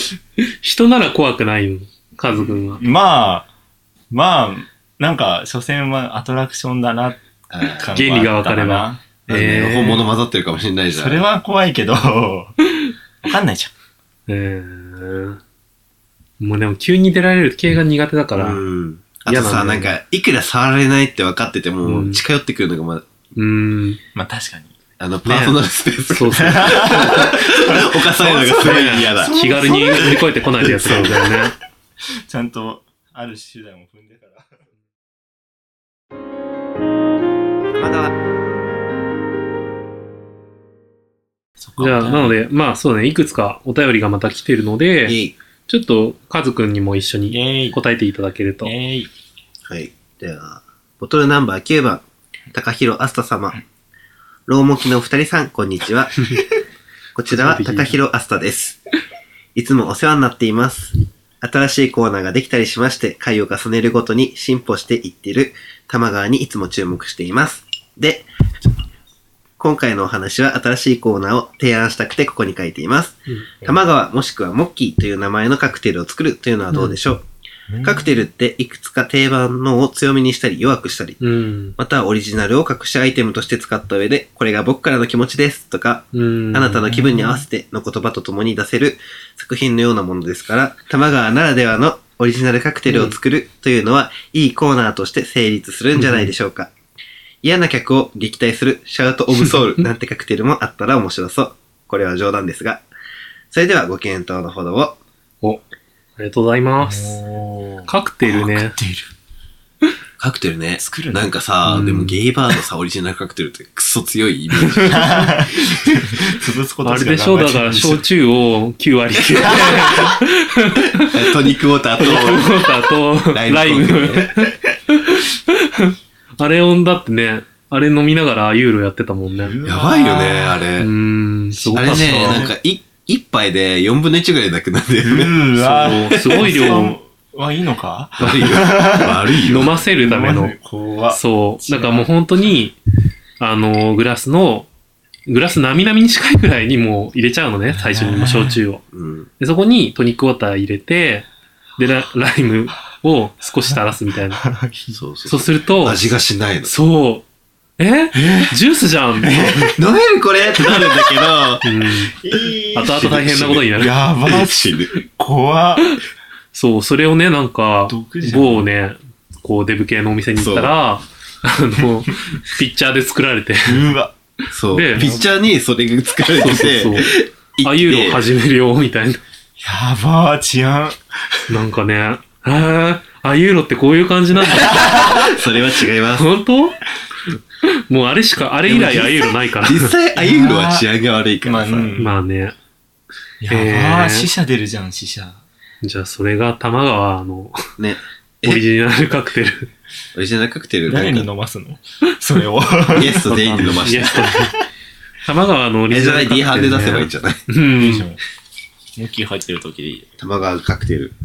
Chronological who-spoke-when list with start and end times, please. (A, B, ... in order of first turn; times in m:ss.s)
0:00.6-0:02.8 A
0:02.8-0:03.5 B
0:04.1-0:09.0 B
0:07.5-0:08.0 C
0:07.9-0:10.1 A
0:09.3-0:11.2 C
0:10.9-0:12.6 B
0:13.2-0:13.7 B
0:14.3-0:15.4 A
0:16.4-0:18.6 A
0:18.4-0:23.1 C
0:19.3-0:19.9 A
0:21.8-0:22.2 A
0:23.4-0:24.0 A
0:24.2-0:24.7 B
0:25.0-0:31.2 C
0:25.2-0:25.6 A
0:26.1-0:27.5 A
0:26.4-0:30.3 B
0:28.5-0:31.6 A
0:32.1-0:34.6 B
0:37.8-0:38.2 C
0:41.6-0:42.4 B
0:41.8-0:48.7 A
0:45.1-0:45.4 C
0:47.3-0:47.8 B
0:48.6-0:49.1 B
0:49.7-0:53.6 C
0:54.5-0:56.4 C
0:57.2-0:58.8 C
0:57.3-0:58.0 A
0:59.6-1:08.3 C
1:09.6-1:17.2 C
1:16.7-1:17.0 A
1:17.7-1:18.2 B
1:17.8-1:21.2 C
1:21.2-1:21.8 A
1:21.8-1:36.7 C
1:26.1-1:27.0 A
1:26.9-1:27.4 B
1:32.9-1:33.2 A
1:36.0-1:36.3 A
1:37.4-1:42.8 C
1:43.5-1:45.0 C
1:46.2-1:47.2 A
1:46.8-1:49.1 B
1:47.9-1:48.8 A
1:50.2-1:55.3 C
1:50.8-1:52.2 B
1:54.7-1:55.1 A
1:54.9-1:58.0 B
1:56.8-2:09.6 A
1:59.4-2:00.0 C
1:59.4-2:00.1 B
2:01.1-2:02.5 C
2:03.3-2:04.3 C
2:09.4-2:10.6 B
2:09.6-2:10.9 C
2:10.8-2:12.5 A
2:11.5-2:12.5 B
2:11.8-2:16.8 C
2:15.0-2:22.1 B
2:15.6-2:17.0 A
2:18.2-2:19.7 C
2:19.4-2:20.6 A
2:21.1-2:22.8 A
2:23.4-2:24.7 A
2:25.3-2:28.8 A
2:27.7-2:28.6 B
2:28.9-2:29.3 C
2:29.4-2:34.4 A
2:34.3-2:35.0 B
2:34.9-2:36.7 C
2:35.3-2:36.0 A
2:36.6-2:37.2 A
2:37.8-2:39.8 A
2:38.2-2:38.5 B
2:39.2-2:39.8 B
2:39.8-2:41.6 C
2:41.6-2:42.2 A
2:42.1-2:45.9 B
2:42.8-2:44.0 A
2:43.0-2:43.6 C
2:44.3-2:44.9 C
2:46.5-2:53.9 A
2:47.9-2:48.7 B
2:50.4-2:50.8 C
2:53.7-2:54.1 B
2:54.5-2:58.3 C
2:54.7-2:55.1 A
2:55.0-2:55.3 B
2:56.4-2:59.2 A
2:59.6-3:01.4 B
3:01.5-3:05.2 A
3:04.5-3:05.3 B
3:04.5-3:06.3 C
3:06.2-3:06.8 A
3:07.9-3:09.9 A
3:08.7-3:12.0 C
3:10.2-3:10.9 B
3:11.4-3:12.2 B
3:12.0-3:12.6 A
3:13.4-3:15.4 B
3:13.5-3:14.3 A
3:15.8-3:17.6 A
3:17.8-3:18.6 C
3:18.4-3:19.7 A
3:20.2-3:21.3 C
3:20.9-3:24.7 B
3:22.9-3:24.3 C
3:23.8-3:24.6 A
3:25.2-3:28.1 A
3:25.9-3:27.4 C
3:27.7-3:28.2 B
3:29.0-3:30.1 B
3:30.2-3:31.1 C